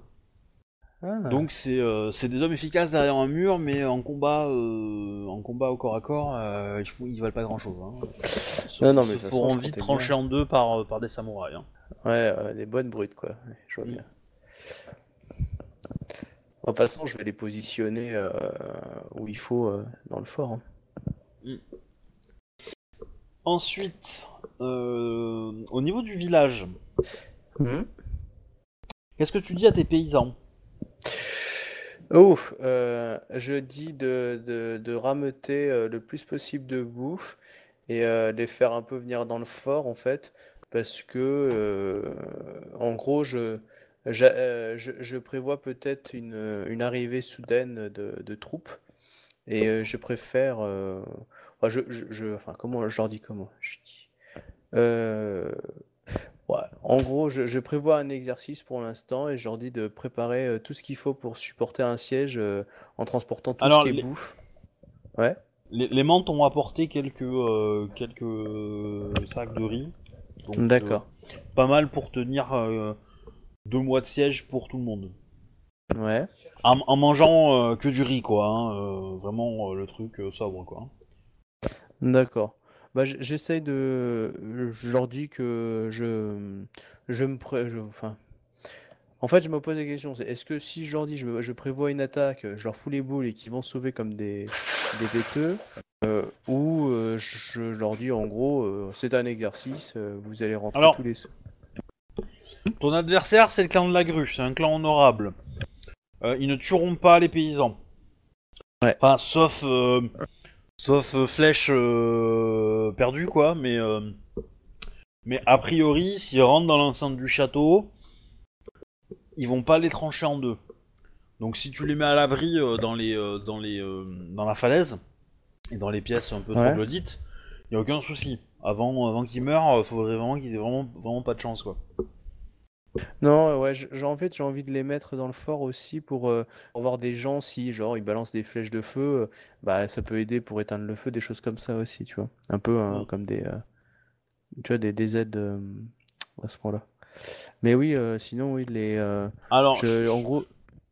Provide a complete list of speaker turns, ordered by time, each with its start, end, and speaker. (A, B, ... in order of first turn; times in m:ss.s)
0:01.0-0:01.5 A
0:01.3-0:11.7 B
0:08.8-0:10.2 A
0:12.0-0:14.0 A
0:16.6-0:20.6 A
0:23.4-0:26.7 B
0:27.6-0:27.9 A
0:29.2-0:30.4 B
0:32.1-0:48.8 A
0:49.5-0:54.1 A
0:54.7-0:55.6 A
0:56.5-1:04.4 A
1:03.6-1:04.1 B
1:05.7-1:09.9 B
1:10.5-1:11.0 B
1:10.6-1:11.1 A
1:11.6-1:13.0 B
1:13.7-1:15.1 B
1:15.9-1:16.3 A
1:16.6-1:20.9 B
1:22.0-1:28.2 A
1:29.2-1:41.3 A
1:40.8-1:41.0 B
1:42.8-1:45.4 B
1:46.2-1:47.8 B
1:49.0-1:50.1 B
1:50.8-1:54.2 B
1:55.3-1:57.9 B
1:59.4-2:00.6 B
2:01.4-2:05.0 B
2:05.7-2:11.8 B
2:06.6-2:06.8 A
2:13.2-2:23.6 A
2:24.6-2:26.9 A
2:27.6-2:30.5 A
2:29.5-2:30.3 B